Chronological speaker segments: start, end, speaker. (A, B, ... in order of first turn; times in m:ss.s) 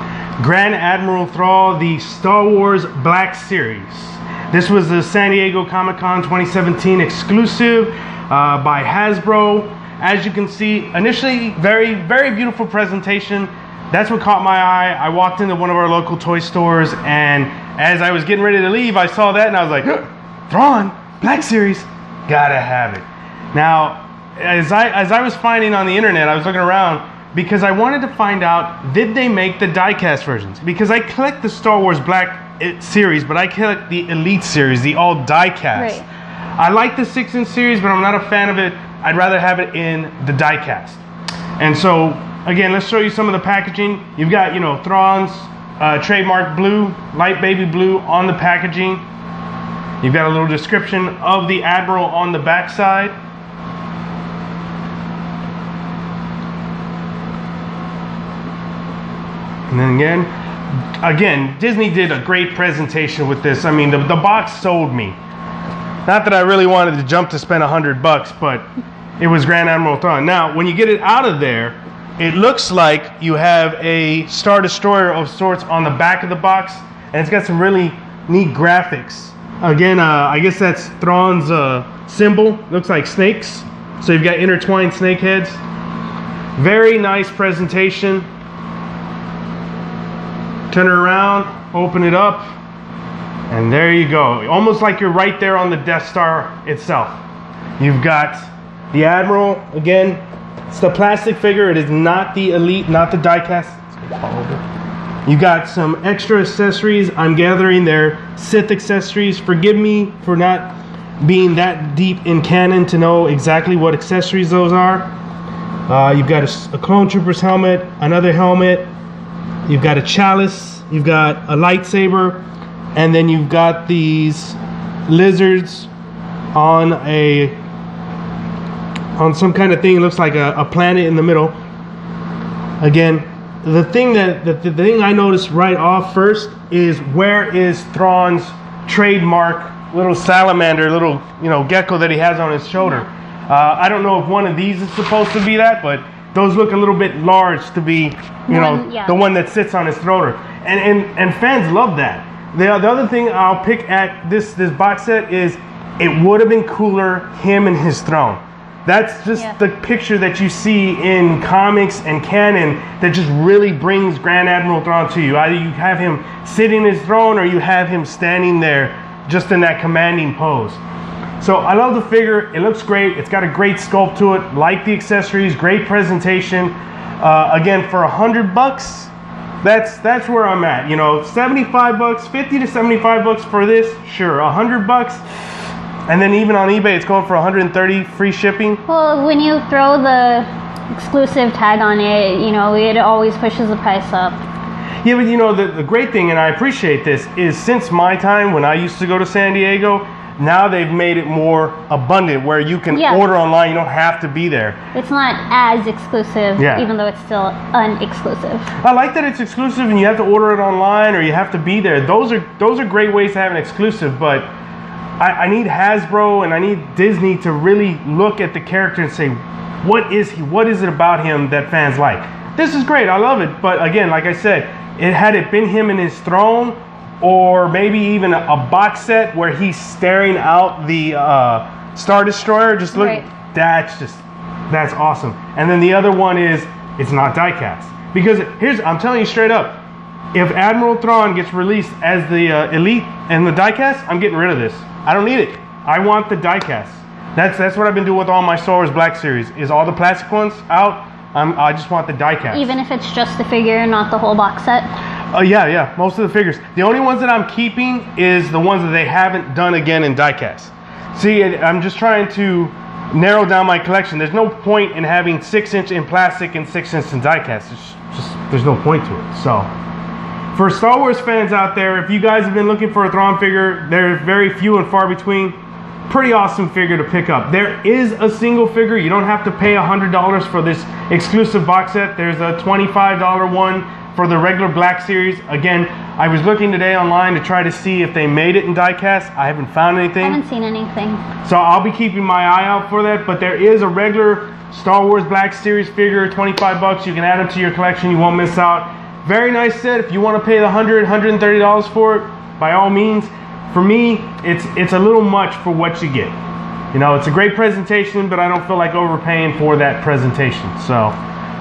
0:00.4-0:36.0 A
0:35.7-0:36.1 B
0:36.6-0:41.0 A
0:41.6-0:49.0 A
0:50.0-0:53.1 A
0:59.7-1:00.3 A
1:01.0-1:05.2 A
1:06.0-1:08.6 A
1:09.2-1:25.6 A
1:26.6-1:28.3 A
1:30.7-1:32.6 A
1:33.5-1:37.2 A
1:37.8-1:44.6 A
1:45.2-1:55.1 A
1:55.9-1:58.9 A
1:59.6-2:02.4 A
2:02.9-2:05.9 A
2:06.5-2:07.6 A
2:09.2-2:11.5 A
2:12.8-2:50.8 A
2:28.5-2:29.2 B
2:51.4-3:05.2 A
3:06.1-3:08.8 A
3:08.9-3:14.4 B
3:15.0-3:24.8 A
3:22.9-3:23.2 B
3:24.9-3:28.7 B
3:26.6-3:26.9 A
3:28.8-3:34.5 A
3:35.2-3:59.8 A
3:52.9-3:53.2 B
4:00.3-4:12.7 A
4:12.5-4:14.9 B
4:15.3-4:29.7 A
4:30.5-4:35.6 A
4:36.1-4:50.4 A
4:50.2-4:51.2 B
4:51.4-5:06.3 A
5:06.9-5:11.2 A